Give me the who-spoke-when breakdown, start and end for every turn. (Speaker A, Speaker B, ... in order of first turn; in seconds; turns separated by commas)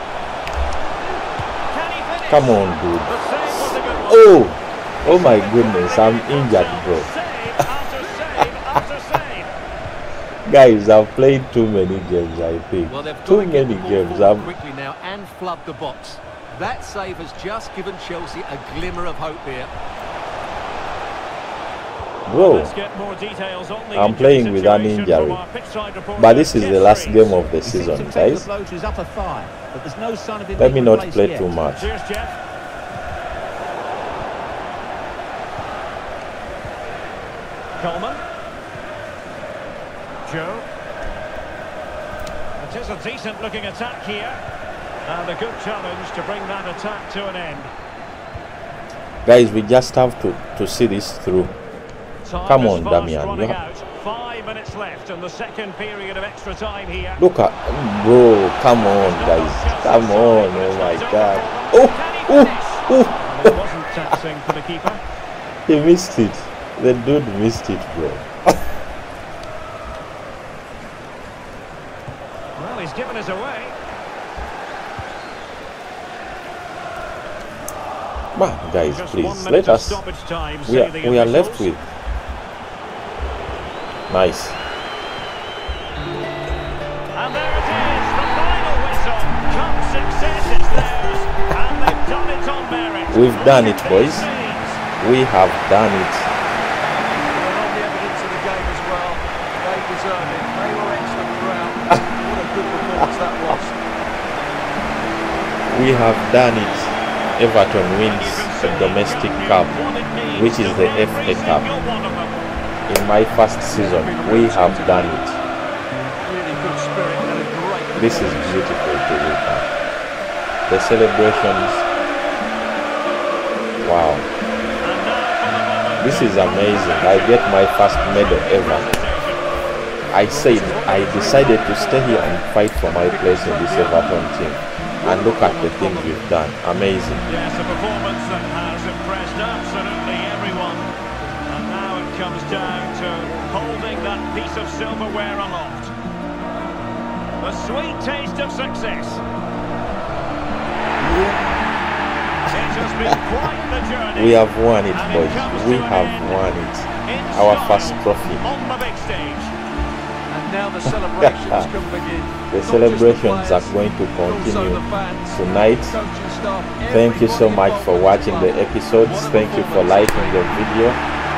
Speaker A: 1.7-4.4, Speaker B: 2.3-7.1, Speaker A: 5.0-9.5, Speaker B: 10.4-14.5, Speaker C: 12.8-19.7, Speaker B: 22.3-22.7, Speaker A: 22.3-27.4, Speaker B: 23.9-25.4, Speaker B: 26.1-28.5, Speaker D: 27.6-31.5, Speaker B: 30.6-31.9, Speaker A: 31.8-32.4, Speaker A: 37.8-38.2, Speaker A: 40.2-40.6, Speaker A: 42.6-44.4, Speaker A: 45.0-47.7, Speaker B: 49.2-51.6, Speaker A: 52.2-57.2, Speaker B: 52.4-53.6, Speaker B: 57.2-63.5, Speaker A: 58.7-65.0, Speaker B: 65.7-68.5, Speaker A: 72.6-73.7, Speaker B: 78.3-80.0, Speaker A: 78.9-81.7, Speaker B: 80.7-81.9, Speaker B: 84.1-84.6, Speaker A: 87.1-94.8, Speaker B: 93.1-94.3, Speaker B: 95.0-96.3, Speaker C: 97.1-103.8, Speaker B: 105.7-109.8, Speaker A: 108.0-112.5, Speaker B: 110.3-111.7, Speaker B: 112.9-115.4, Speaker C: 113.7-115.2, Speaker C: 116.2-118.6, Speaker B: 117.9-119.7, Speaker B: 120.7-121.8, Speaker B: 123.8-124.2, Speaker A: 124.8-129.4, Speaker B: 126.0-128.9, Speaker B: 130.1-137.3, Speaker C: 130.3-132.4, Speaker A: 131.1-131.6, Speaker C: 132.9-134.0, Speaker C: 135.0-136.2, Speaker A: 137.3-140.9, Speaker A: 141.4-145.9, Speaker A: 147.4-149.2, Speaker B: 151.0-151.6, Speaker B: 152.5-153.2, Speaker A: 152.5-156.4, Speaker B: 154.1-158.4, Speaker A: 157.0-159.5, Speaker C: 160.3-170.5, Speaker B: 161.2-161.7, Speaker B: 162.5-165.9, Speaker B: 166.9-171.0